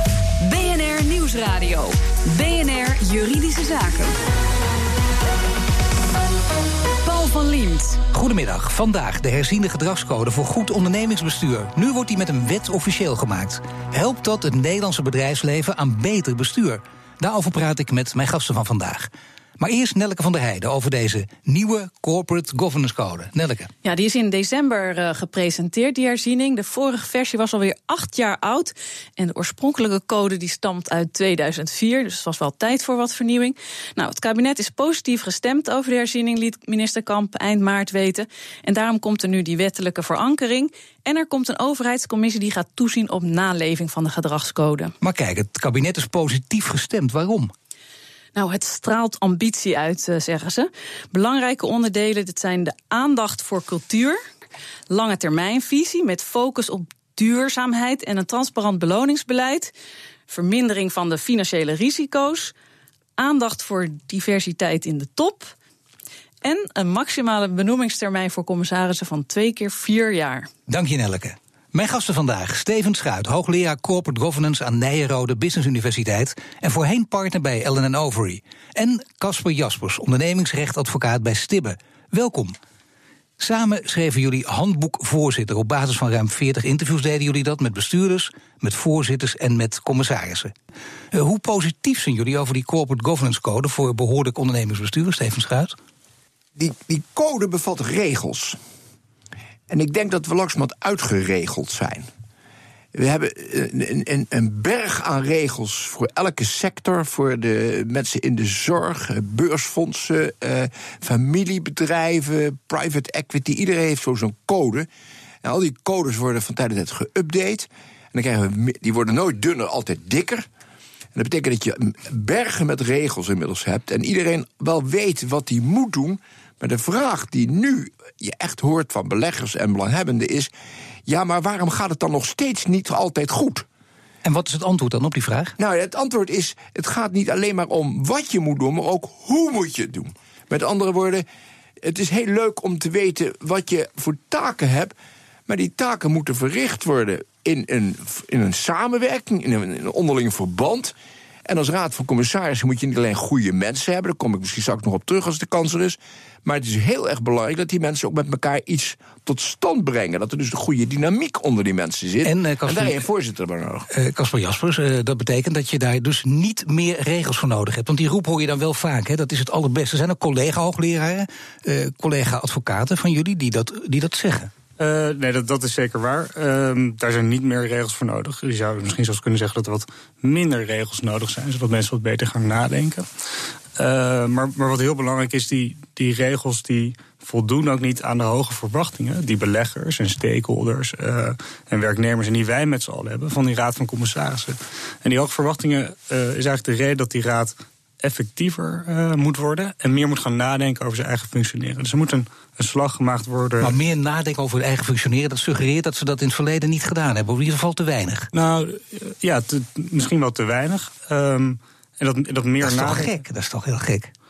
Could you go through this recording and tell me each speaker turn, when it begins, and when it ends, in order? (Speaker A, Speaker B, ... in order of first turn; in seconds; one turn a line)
Speaker A: 0.4-4.1
Speaker A: 7.0-8.0
Speaker B: 8.1-23.7
Speaker C: 23.8-44.9
Speaker B: 45.0-47.5
Speaker C: 48.3-54.2
Speaker C: 54.9-59.7
Speaker C: 60.3-62.5
Speaker C: 63.2-65.5
Speaker C: 66.4-70.5
Speaker B: 70.7-82.5
Speaker B: 83.4-90.5
Speaker B: 91.1-95.7
Speaker D: 96.6-98.6
Speaker D: 99.7-102.1
Speaker D: 102.9-114.9
Speaker D: 115.4-120.5
Speaker D: 121.1-130.5
Speaker D: 131.1-133.7
Speaker B: 134.2-135.6
Speaker D: 135.6-141.2
Speaker D: 141.8-144.9
Speaker D: 145.5-163.9
Speaker B: 162.2-163.0
Speaker B: 163.9-174.5
Speaker E: 174.8-183.1
Speaker E: 183.8-203.7
Speaker B: 203.6-208.3
Speaker E: 208.3-213.1
Speaker B: 212.6-214.1